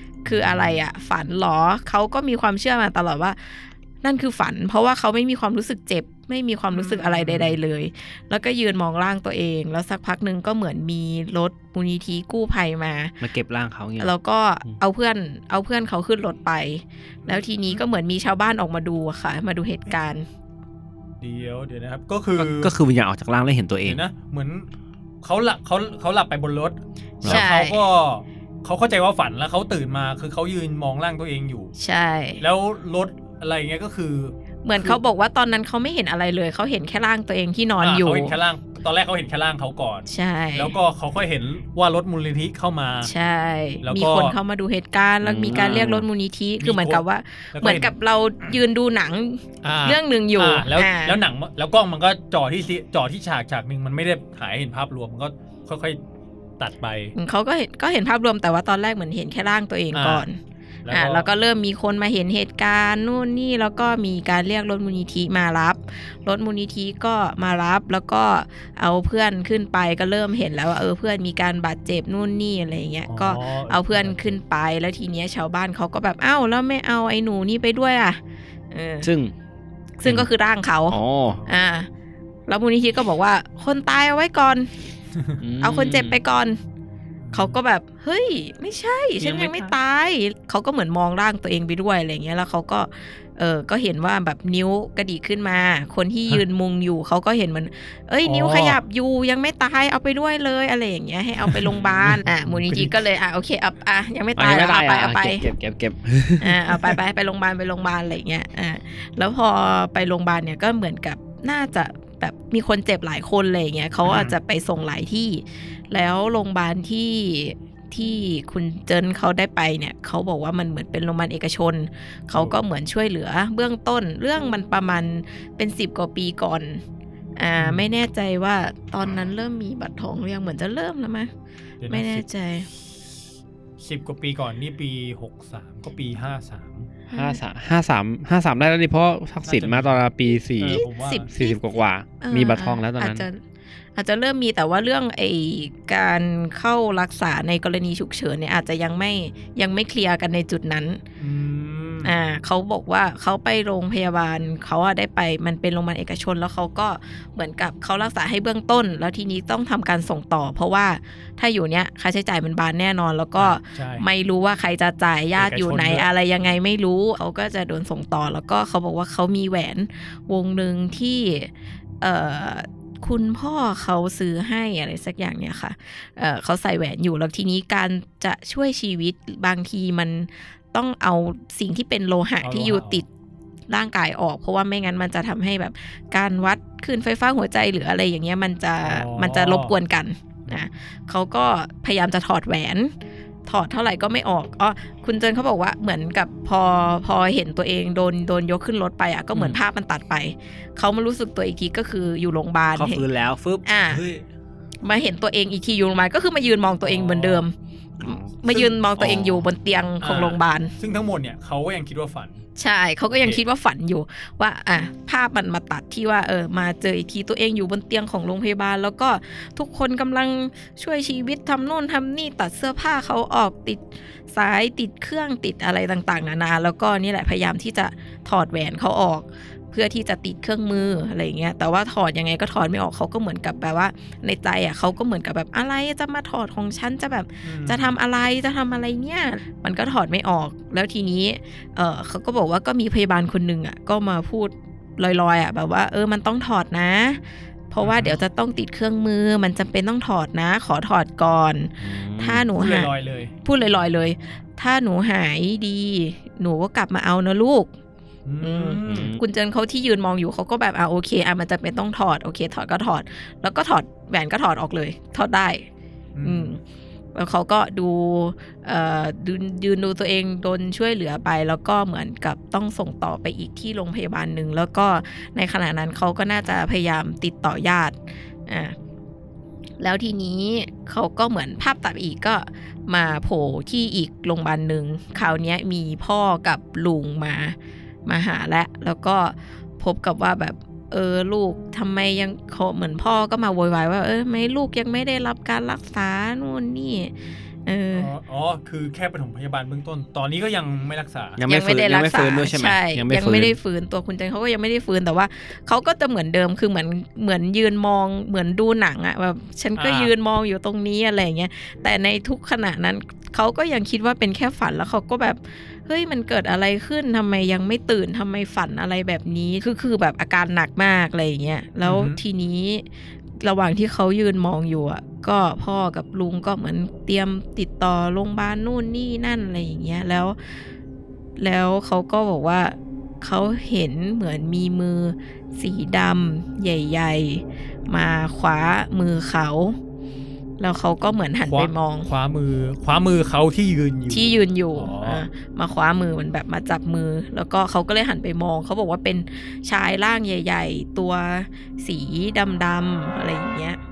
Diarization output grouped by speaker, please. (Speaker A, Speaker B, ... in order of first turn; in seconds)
Speaker A: 0.2-13.2, 14.0-20.3, 27.2-27.8, 31.8-32.4, 34.6-38.3, 40.1-40.7, 43.0-51.2, 57.2-60.4, 60.9-78.2, 78.7-79.1, 80.0-81.9, 82.5-84.7, 85.6-86.6, 87.3-105.5, 106.4-126.8, 127.4-131.3, 131.9-132.7, 137.1-137.4, 140.7-141.6, 142.2-143.4, 144.0-151.0, 152.0-183.1, 183.7-192.9, 193.5-203.1, 203.7-204.0, 204.8-210.7, 212.6-252.9, 253.4-257.7, 258.4-265.7, 266.2-266.6, 267.1-278.8, 279.8-298.1, 301.5-322.9, 323.4-330.4, 331.4-339.8, 340.6-342.1, 344.1-353.8
Speaker B: 0.3-0.8, 6.7-7.6, 17.2-17.8, 21.2-22.7, 23.9-24.7, 25.2-31.7, 32.4-35.0, 37.8-43.1, 43.8-44.4, 45.5-45.9, 46.6-47.9, 49.6-56.0, 56.6-57.1, 59.9-60.3, 60.9-61.3, 73.1-74.4, 87.2-87.6, 89.2-89.7, 98.2-98.8, 101.5-102.9, 114.0-114.3, 122.3-122.6, 127.6-127.9, 131.8-132.2, 133.8-136.9, 139.4-140.0, 140.6-141.3, 151.2-152.1, 163.4-164.1, 165.4-166.1, 182.4-183.0, 188.8-189.7, 206.8-207.5, 208.5-208.8, 210.0-212.4, 213.1-213.4, 237.4-237.9, 247.8-248.2, 252.6-253.3, 258.3-259.1, 266.1-266.6, 297.9-301.4, 309.8-310.1, 321.8-322.2, 341.5-345.2
Speaker C: 13.2-14.1, 22.4-24.0, 45.2-46.1, 79.0-79.3, 80.9-81.4, 85.4-86.2, 104.4-106.6, 137.1-143.2, 202.8-204.1, 209.0-209.4, 251.8-252.5, 258.9-259.2, 301.4-303.6